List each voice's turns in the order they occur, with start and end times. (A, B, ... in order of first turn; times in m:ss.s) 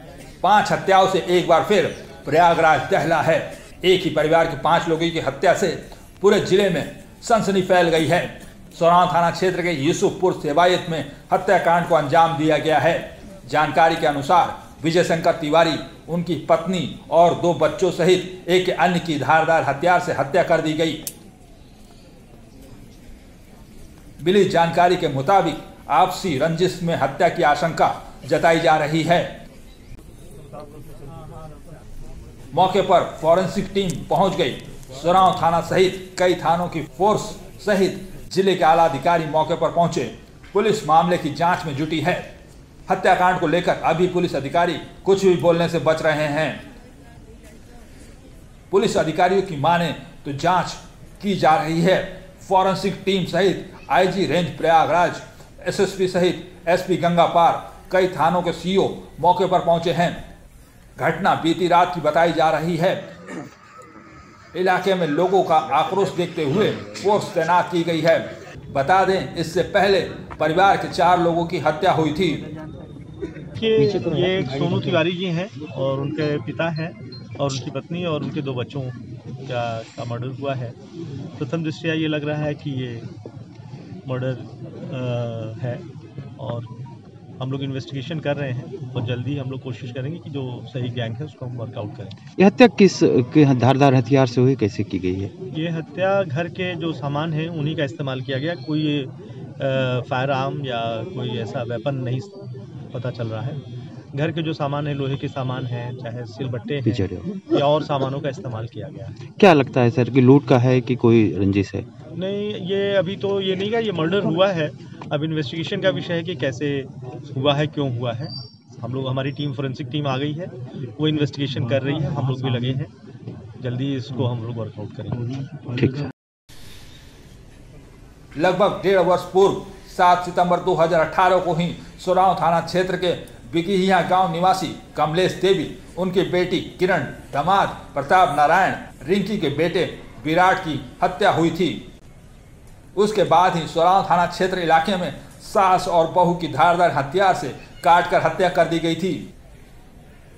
0:00.4-0:21.1 A
0:24.2-0:29.4 A
0:32.5-0:42.3 A
0:42.9-0:46.6 A
0:48.7-1:00.2 A
1:01.0-1:03.1 A
1:04.5-1:12.4 A
1:13.6-1:20.8 B
1:21.4-1:23.1 B
1:24.0-1:25.8 B
1:26.4-1:26.7 B
1:27.4-1:32.2 B
1:32.4-1:35.3 C
1:35.5-1:42.4 B
1:42.9-1:43.6 B
1:44.1-1:49.2 B
1:46.8-1:47.4 C
1:49.4-1:51.9 C
1:52.1-2:02.9 B
2:03.6-2:05.4 B
2:05.7-2:06.1 C
2:08.4-2:21.8 A
2:22.9-2:29.2 A